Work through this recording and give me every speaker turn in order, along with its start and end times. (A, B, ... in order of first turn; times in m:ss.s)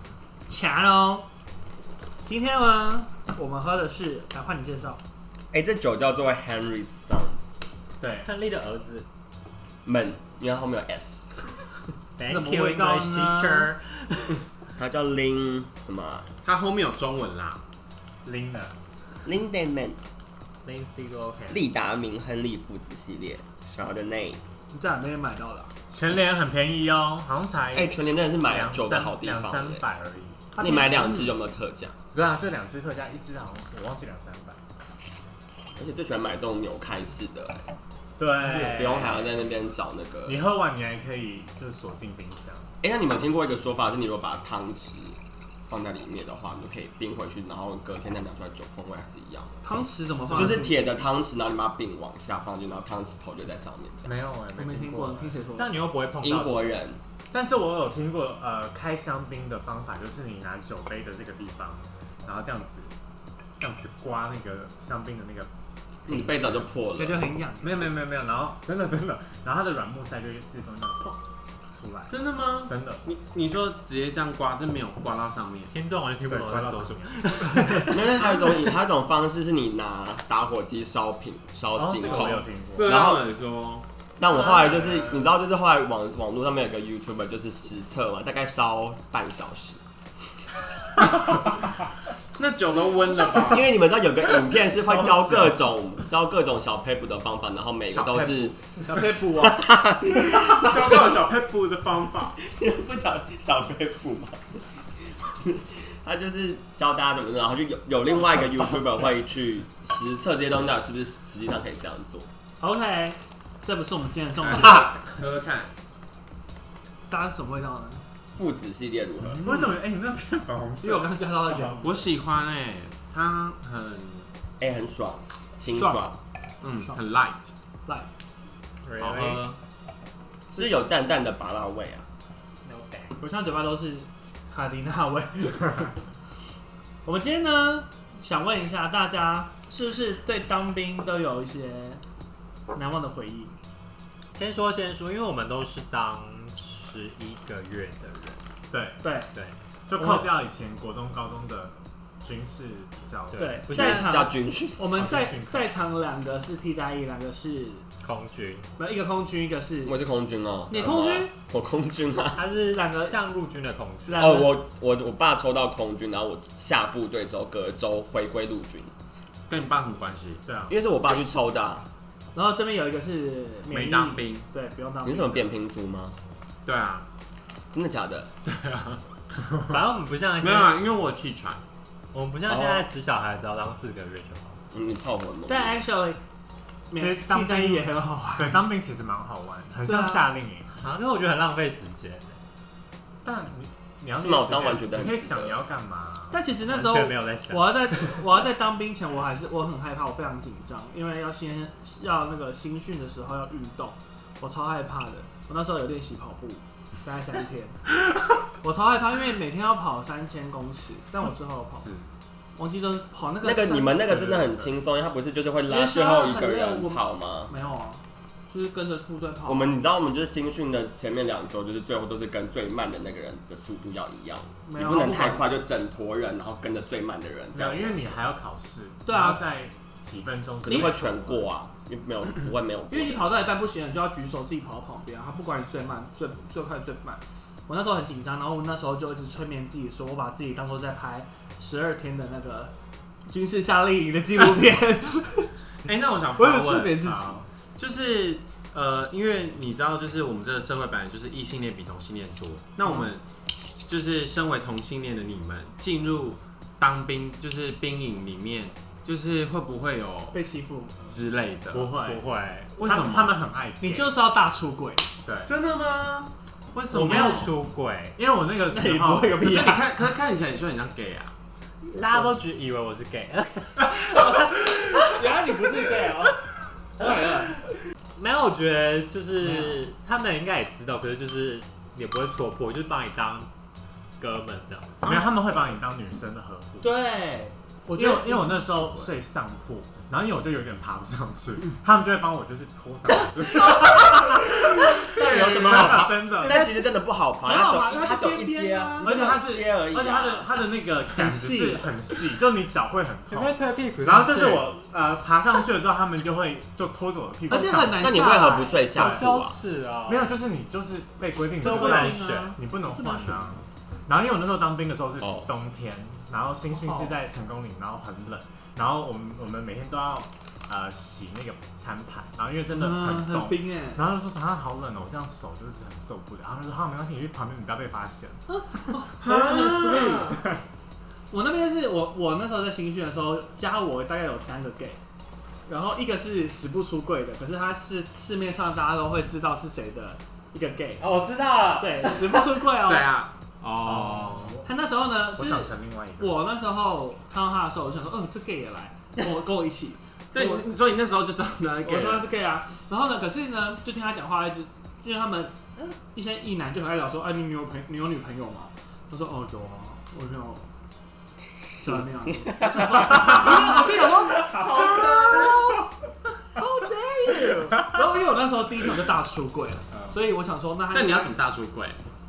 0:00.5-0:01.3 A
0:02.2-0:05.0 A
0:05.5-0:07.6 B
0:08.0-0:08.3 C
0:08.2-0:09.1 D
0:09.8-0:11.4 B
0:12.2-0:14.4 D
0:12.2-0:13.7 A
0:14.8-0:16.3 B
0:16.4-0:17.6 E
0:18.2-0:18.8 C
0:19.2-0:20.0 B
0:20.6-0:21.6 D
0:21.5-0:24.4 B
0:24.7-0:25.7 A
0:25.9-0:30.6 C
0:27.7-0:29.8 B
0:30.6-0:31.2 A
0:30.6-0:31.9 B
0:32.1-0:34.6 C
0:35.8-0:37.6 B
0:38.2-0:39.2 C
0:38.5-0:40.4 B
0:40.3-0:42.7 C
0:42.8-0:49.6 B
0:49.6-0:50.8 A
0:50.3-0:50.7 C
0:50.3-0:54.1 B
0:54.0-0:55.4 C
0:54.6-0:55.8 A
0:55.6-0:56.8 D
0:56.2-0:57.0 B
0:57.3-1:02.9 C
1:03.6-1:05.5 C
1:06.1-1:07.3 B
1:06.1-1:06.7 C
1:07.0-1:07.8 A
1:07.6-1:11.2 C
1:11.7-1:12.2 C
1:12.1-1:15.7 E
1:12.7-1:13.0 C
1:15.7-1:18.0 D
1:16.3-1:17.9 C
1:17.5-1:17.8 A
1:17.8-1:23.3 B
1:21.7-1:23.0 C
1:22.7-1:23.8 E
1:24.2-1:29.8 B
1:24.3-1:25.3 C
1:24.6-1:25.0 E
1:32.4-1:33.7 E
1:33.4-1:41.1 B
1:34.9-1:35.6 C
1:37.9-1:38.5 E
1:38.8-1:39.6 A
1:40.2-1:42.4 E
1:42.4-1:44.6 B
1:45.4-1:52.3 B
1:52.6-1:54.9 A
1:54.6-1:55.7 E
1:57.1-1:58.0 A
1:58.4-1:59.5 B
1:59.2-2:02.0 C
2:00.8-2:02.1 A
2:01.8-2:04.3 E
2:04.6-2:06.2 B
2:05.7-2:06.1 A
2:06.6-2:07.5 E
2:06.8-2:07.0 A
2:08.8-2:09.4 D
2:09.0-2:09.6 E
2:10.5-2:10.8 A
2:10.5-2:12.0 B
2:12.6-2:13.2 D
2:13.2-2:15.9 A
2:17.0-2:22.0 A
2:22.7-2:23.6 A
2:24.4-2:28.4 D
2:28.7-2:29.0 C
2:29.0-2:29.3 A
2:29.9-2:33.7 C
2:30.0-2:30.3 A
2:33.3-2:34.2 D
2:33.4-2:37.8 A
2:33.7-2:34.8 B
2:34.9-2:35.7 C
2:38.0-2:38.7 D
2:38.8-2:40.0 A
2:39.8-2:42.4 B
2:40.7-2:41.3 A
2:42.4-2:44.4 D
2:42.7-2:43.2 A
2:44.1-2:44.6 A
2:44.2-2:48.9 B
2:49.5-2:50.4 E
2:50.5-2:50.7 C
2:50.7-2:51.9 B
2:52.3-2:55.5 A
2:53.7-2:54.5 E
2:55.0-2:56.2 B
2:56.6-2:57.0 E
2:57.7-2:58.3 B
2:58.4-2:59.0 E
2:59.7-3:00.8 D
3:00.4-3:01.6 E
3:02.1-3:04.6 D
3:02.5-3:02.8 B
3:04.7-3:05.8 B
3:05.5-3:06.2 A
3:06.9-3:08.6 A
3:07.0-3:10.8 C
3:09.9-3:10.3 A
3:10.8-3:12.4 D
3:13.2-3:16.4 C
3:14.2-3:15.6 B
3:16.3-3:27.9 A
3:16.7-3:18.2 D
3:28.5-3:31.9 A
3:31.8-3:32.1 C
3:32.6-3:34.0 A
3:33.4-3:37.5 B
3:34.1-3:34.7 C
3:35.7-3:39.8 A
3:39.5-3:48.2 B
3:44.7-3:45.5 A
3:47.5-3:51.5 C
3:49.1-3:49.4 A
3:50.6-3:53.3 B
3:50.7-3:50.9 A
3:52.9-4:02.7 A
4:03.3-4:05.5 A
4:05.8-4:13.2 E
4:06.4-4:07.4 A
4:13.9-4:20.4 E
4:20.3-4:21.0 A
4:21.1-4:22.0 E
4:21.7-4:22.2 C
4:22.0-4:22.8 D
4:22.8-4:23.4 E
4:22.8-4:24.2 C
4:23.8-4:25.1 A
4:25.2-4:25.5 C
4:25.5-4:27.5 E
4:26.9-4:28.2 D
4:27.0-4:27.5 C
4:28.2-4:29.4 C
4:28.7-4:29.9 A
4:29.4-4:31.3 E
4:31.9-4:32.3 A
4:31.9-4:34.2 D
4:34.2-4:36.4 A
4:37.0-4:37.6 A
4:38.2-4:43.5 D
4:39.4-4:39.8 C
4:44.2-4:45.0 D
4:45.0-4:45.3 E
4:45.0-4:46.9 C
4:46.8-4:49.1 A
4:48.0-4:56.6 C
4:54.9-5:00.5 B
4:55.7-4:56.8 A
4:57.4-4:59.2 A
4:59.0-5:08.2 C
5:01.1-5:01.9 A
5:03.3-5:04.7 D
5:07.5-5:08.8 A
5:07.9-5:09.6 B
5:09.0-5:10.3 D
5:09.0-5:09.2 C
5:10.1-5:28.5 C
5:11.6-5:12.6 D
5:11.6-5:13.6 A
5:15.2-5:15.5 B
5:16.8-5:17.1 A
5:22.7-5:24.0 A
5:28.5-5:30.3 A
5:29.2-5:30.4 E
5:31.3-5:35.0 A
5:35.7-5:41.1 A
5:41.0-5:42.4 D
5:41.8-5:43.1 A
5:42.7-5:44.6 E
5:43.8-5:44.6 C
5:44.6-5:50.7 A
5:45.4-5:46.4 C
5:50.3-5:52.3 E
5:51.8-5:55.6 A
5:56.1-6:00.7 A
6:01.8-6:05.8 A
6:02.5-6:03.5 B
6:03.4-6:03.8 E
6:04.6-6:05.6 E
6:06.6-6:11.4 A
6:10.9-6:12.0 E